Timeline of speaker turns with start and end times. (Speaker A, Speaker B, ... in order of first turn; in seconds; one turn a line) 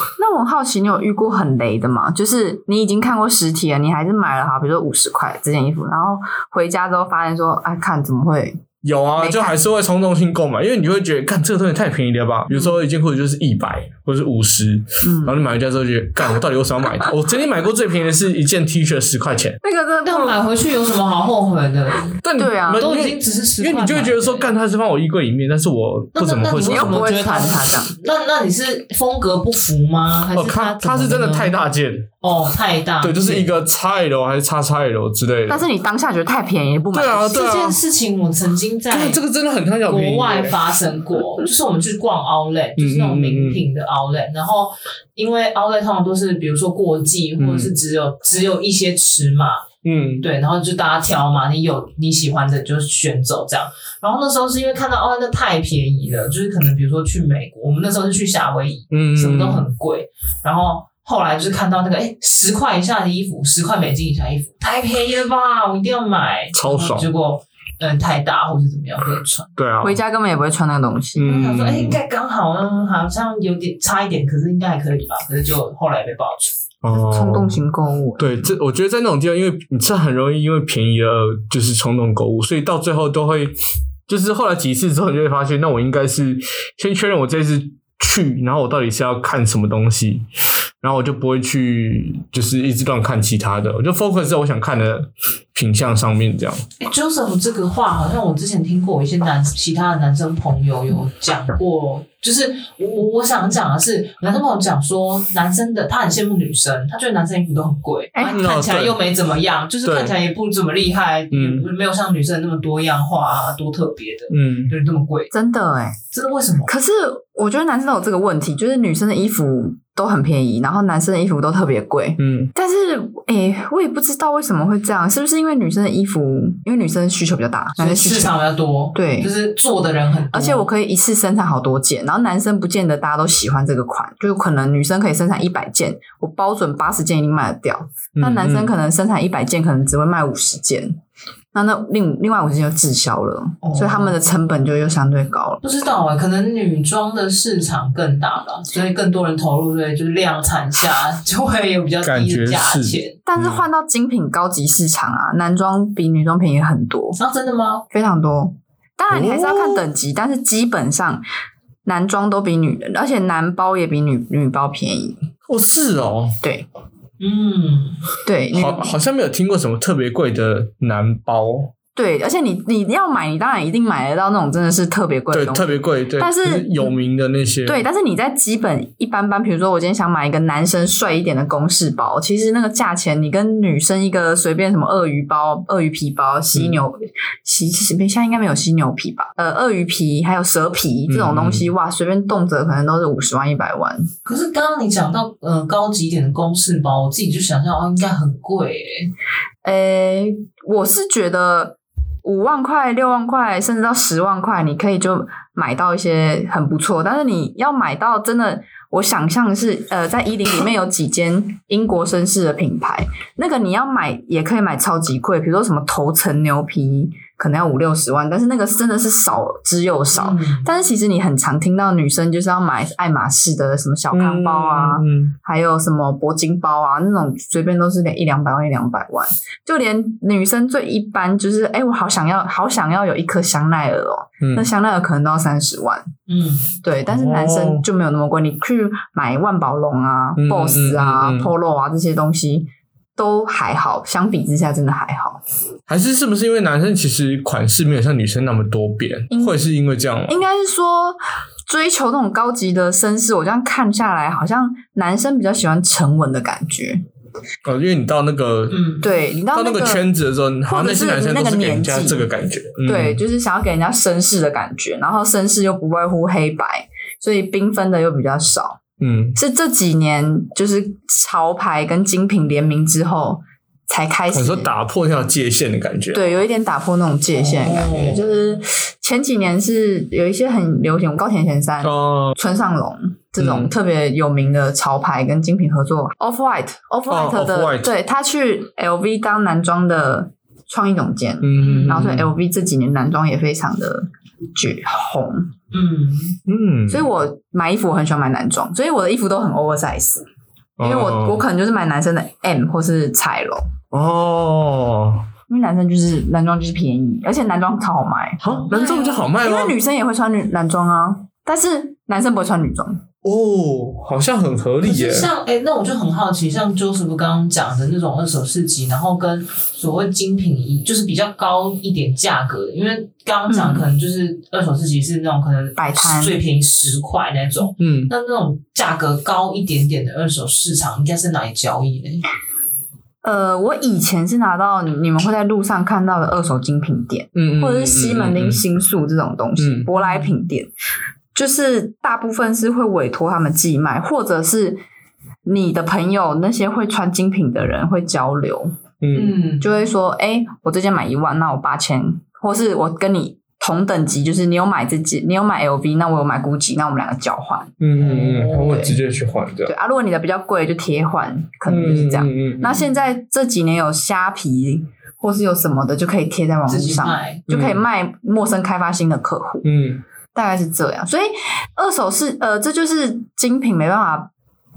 Speaker A: 0.2-8.6
Speaker B: 8.8-19.6
Speaker A: 9.2-9.6
Speaker A: 15.0-15.4
Speaker A: 19.6-20.4
Speaker C: 20.0-22.2
Speaker B: 22.2-27.1
Speaker A: 22.4-22.9
Speaker C: 22.8-24.5
Speaker C: 26.1-31.5
Speaker A: 26.6-27.9
Speaker B: 30.3-32.1
Speaker C: 32.2-33.5
Speaker B: 33.0-35.6
Speaker A: 35.5-37.5
Speaker B: 36.9-37.8
Speaker C: 37.3-39.2
Speaker B: 38.9-40.6
Speaker C: 39.9-49.6
Speaker B: 42.8-43.6
Speaker B: 47.4-47.7
Speaker B: 49.8-50.2
Speaker C: 50.2-69.5
Speaker B: 58.9-59.6
Speaker B: 66.5-67.1
Speaker B: 69.6-70.0
Speaker A: 69.8-71.2
Speaker B: 71.2-72.0
Speaker C: 71.2-76.6
Speaker B: 76.8-77.6
Speaker A: 76.9-78.4
Speaker B: 78.2-83.5
Speaker B: 84.1-90.2
Speaker B: 90.8-96.6
Speaker C: 96.8-115.3
Speaker A: 108.1-108.4
Speaker B: 108.3-109.0
Speaker B: 109.8-110.1
Speaker B: 111.3-111.7
Speaker B: 114.3-114.7
Speaker A: 115.3-116.0
Speaker C: 116.1-116.7
Speaker A: 116.7-128.3
Speaker B: 122.2-122.5
Speaker C: 127.8-130.7
Speaker A: 128.9-129.3
Speaker A: 130.3-141.0
Speaker B: 138.2-138.7
Speaker A: 141.5-145.6
Speaker C: 143.6-144.2
Speaker C: 145.6-153.2
Speaker B: 152.0-153.6
Speaker A: 153.2-157.2
Speaker C: 157.2-157.8
Speaker A: 157.9-161.2
Speaker B: 159.1-159.8
Speaker A: 161.8-165.2
Speaker B: 165.5-166.4
Speaker C: 167.2-168.0
Speaker A: 168.2-168.9
Speaker B: 168.5-171.7
Speaker A: 171.9-177.0
Speaker B: 175.3-177.8
Speaker A: 177.6-194.1
Speaker B: 186.5-186.8
Speaker B: 191.1-191.7
Speaker C: 194.2-199.1
Speaker A: 199.6-236.1
Speaker C: 220.1-220.7
Speaker B: 224.1-225.3
Speaker B: 234.4-234.7
Speaker C: 236.3-236.8
Speaker A: 236.8-245.4
Speaker B: 237.1-237.8
Speaker B: 240.4-241.5
Speaker B: 245.9-250.4
Speaker A: 249.3-249.6
Speaker A: 250.3-257.0
Speaker B: 257.6-258.8
Speaker C: 258.7-259.1
Speaker A: 259.0-260.0
Speaker B: 259.5-263.2
Speaker A: 260.7-262.2
Speaker A: 262.8-268.8
Speaker B: 269.0-269.4
Speaker A: 269.4-274.7
Speaker B: 274.3-276.2
Speaker A: 276.1-295.5
Speaker C: 277.3-278.3
Speaker B: 281.8-282.4
Speaker B: 283.4-283.7
Speaker B: 287.1-287.9
Speaker B: 291.4-292.3
Speaker C: 291.6-292.1
Speaker C: 295.7-296.4
Speaker B: 296.5-297.1
Speaker A: 296.9-300.2
Speaker B: 300.8-301.4
Speaker A: 300.8-303.7
Speaker B: 303.9-305.2
Speaker A: 305.5-308.4
Speaker B: 308.4-309.8
Speaker C: 308.4-309.3
Speaker A: 309.4-313.0
Speaker B: 313.2-315.3
Speaker C: 314.8-332.2
Speaker A: 323.5-323.9
Speaker A: 325.8-326.4
Speaker B: 327.8-328.1
Speaker A: 333.2-340.7
Speaker B: 337.4-338.6
Speaker B: 339.6-339.9
Speaker C: 340.0-340.3
Speaker A: 341.3-344.8
Speaker A: 345.4-348.7
Speaker B: 349.0-349.3
Speaker C: 349.1-349.7
Speaker A: 349.6-359.0
Speaker B: 357.8-359.7
Speaker C: 358.0-358.8
Speaker A: 359.7-369.6
Speaker B: 361.6-362.8
Speaker C: 366.7-367.4
Speaker B: 367.5-367.8
Speaker B: 369.6-370.0
Speaker A: 370.3-374.3